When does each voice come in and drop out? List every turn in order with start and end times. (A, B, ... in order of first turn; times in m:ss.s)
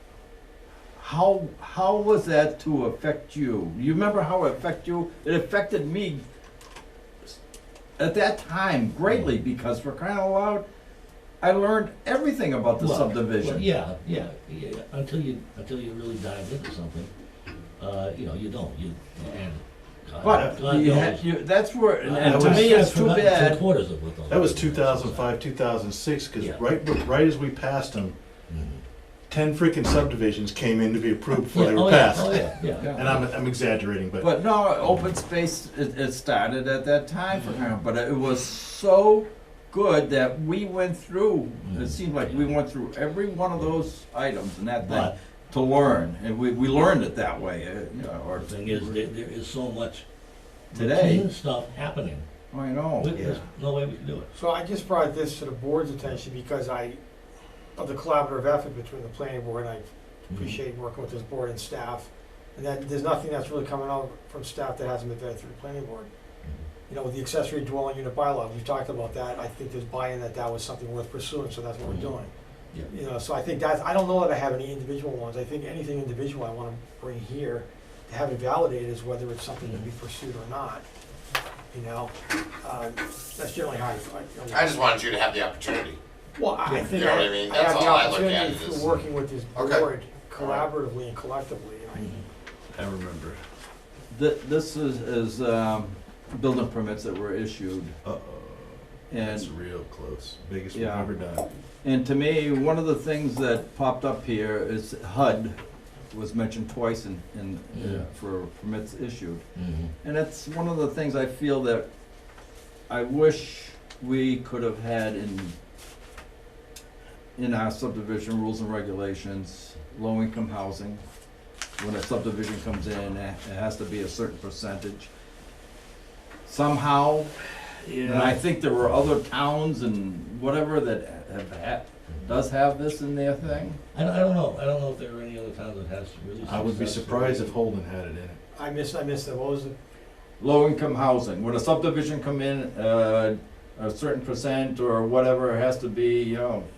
0:01.0-0:06.2 A
0:08.0-0:10.6 A
0:09.1-0:09.3 B
0:11.4-0:13.7 A
0:12.8-0:17.1 B
0:17.8-0:21.3 B
0:20.2-0:23.6 A
0:20.2-0:20.6 C
0:22.0-0:25.3 B
0:22.2-0:22.9 C
0:24.3-0:28.2 C
0:26.4-0:26.6 B
0:28.5-0:28.8 B
0:29.3-0:34.3 C
0:31.4-0:33.2 B
0:32.8-0:33.2 A
0:34.2-0:49.0 A
0:41.6-0:42.5 B
0:44.8-0:45.1 B
0:48.4-0:50.0 B
0:50.7-0:51.2 A
0:50.7-0:52.2 B
0:52.5-0:53.1 A
0:53.0-0:54.3 B
0:53.1-0:53.4 C
0:54.3-0:57.0 D
0:57.8-1:06.1 D
1:00.3-1:00.6 B
1:06.9-1:12.3 D
1:11.8-1:12.1 B
1:12.9-1:20.8 D
1:19.6-1:19.9 B
1:21.7-1:24.9 D
1:24.5-1:26.0 E
1:26.4-1:32.1 D
1:26.6-1:26.9 B
1:26.9-1:29.0 E
1:29.5-1:30.6 E
1:32.0-1:32.2 B
1:32.7-1:33.4 C
1:34.1-1:38.0 A
1:38.0-1:41.4 C
1:39.1-1:39.5 A
1:40.7-1:41.1 A
1:41.8-1:45.6 A
1:46.1-1:49.4 A
1:47.7-1:48.0 B
1:49.5-1:49.9 B
1:50.0-1:51.9 A
1:52.9-1:55.5 A
1:57.4-2:01.0 A
2:01.8-2:05.1 A
2:06.4-2:07.3 A
2:07.8-2:08.4 B
2:08.0-2:13.8 A
2:13.9-2:17.5 B
2:16.4-2:18.4 C
2:18.5-2:19.7 D
2:20.4-2:26.7 A